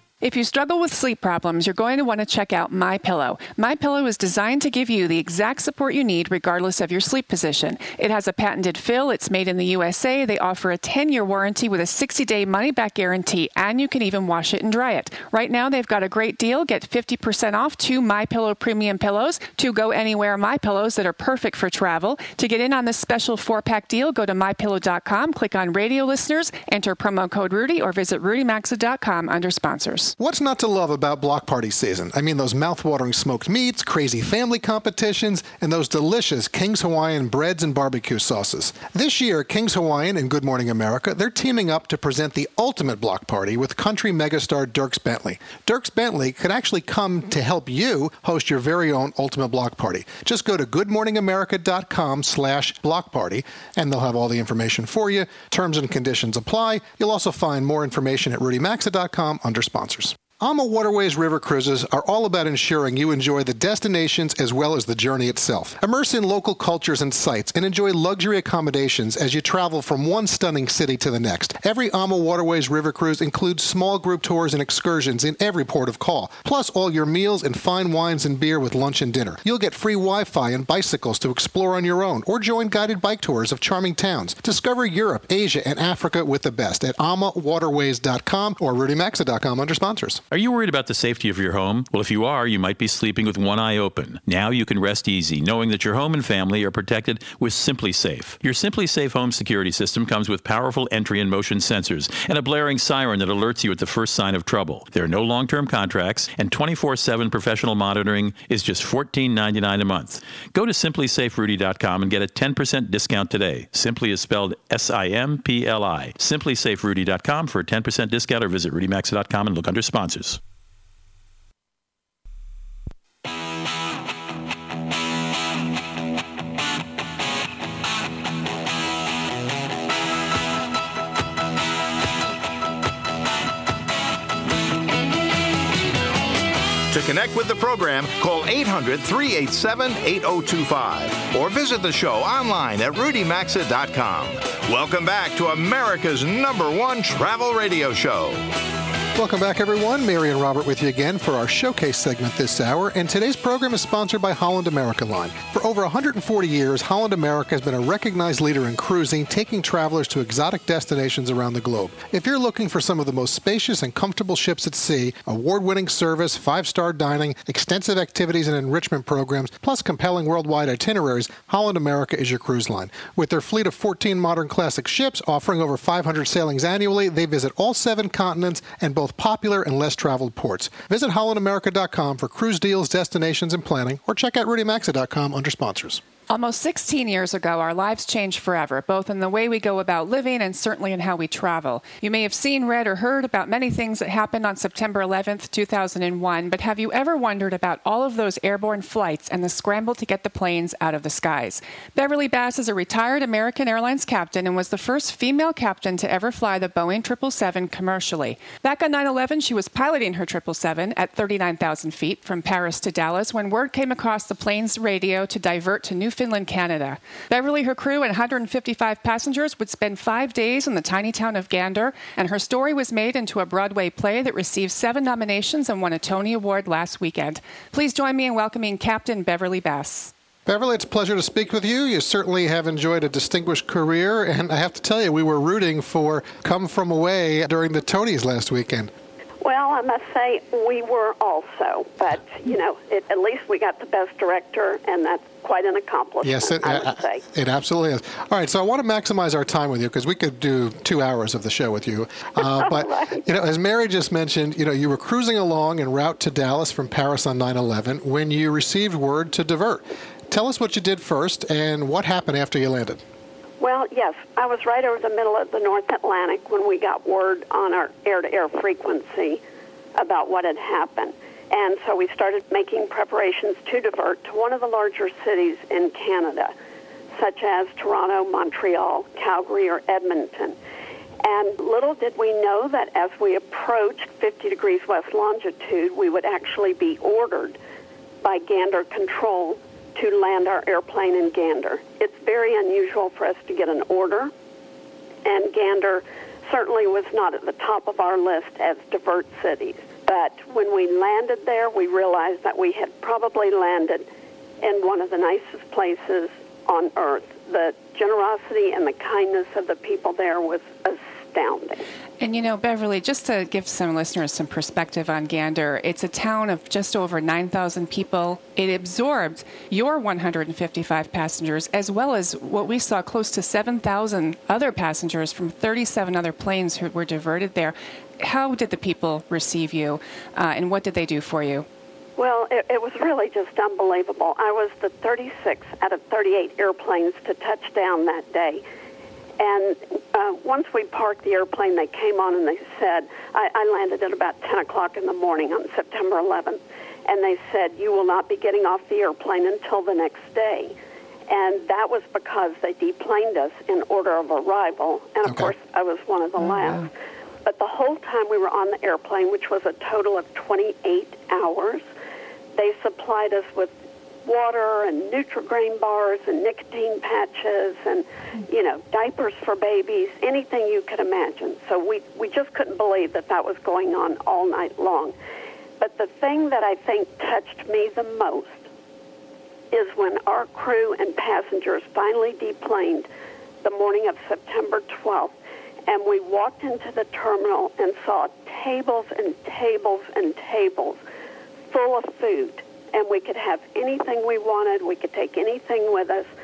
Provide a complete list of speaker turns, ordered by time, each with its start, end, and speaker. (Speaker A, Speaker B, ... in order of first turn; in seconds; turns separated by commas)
Speaker A: 0.2-30.1, Speaker B: 30.2-90.2, Speaker C: 90.3-120.4, Speaker D: 136.9-148.4, Speaker B: 149.1-186.0, Speaker A: 186.3-230.1, Speaker B: 230.4-238.9, Speaker E: 239.4-247.2, Speaker B: 246.2-263.0, Speaker E: 252.6-253.2, Speaker E: 263.6-269.4, Speaker E: 270.0-276.5, Speaker E: 277.2-280.6, Speaker E: 281.2-287.6, Speaker E: 288.2-294.3, Speaker E: 295.2-304.1, Speaker E: 304.6-311.8, Speaker A: 312.2-331.6, Speaker E: 332.2-338.6, Speaker E: 339.4-350.7, Speaker E: 351.3-356.9, Speaker B: 355.2-355.5, Speaker A: 356.4-356.7, Speaker E: 357.4-361.8, Speaker E: 362.5-363.7, Speaker E: 364.2-375.1, Speaker E: 375.8-378.6, Speaker E: 379.7-383.1, Speaker E: 383.6-385.3, Speaker E: 385.9-391.0, Speaker E: 391.7-396.3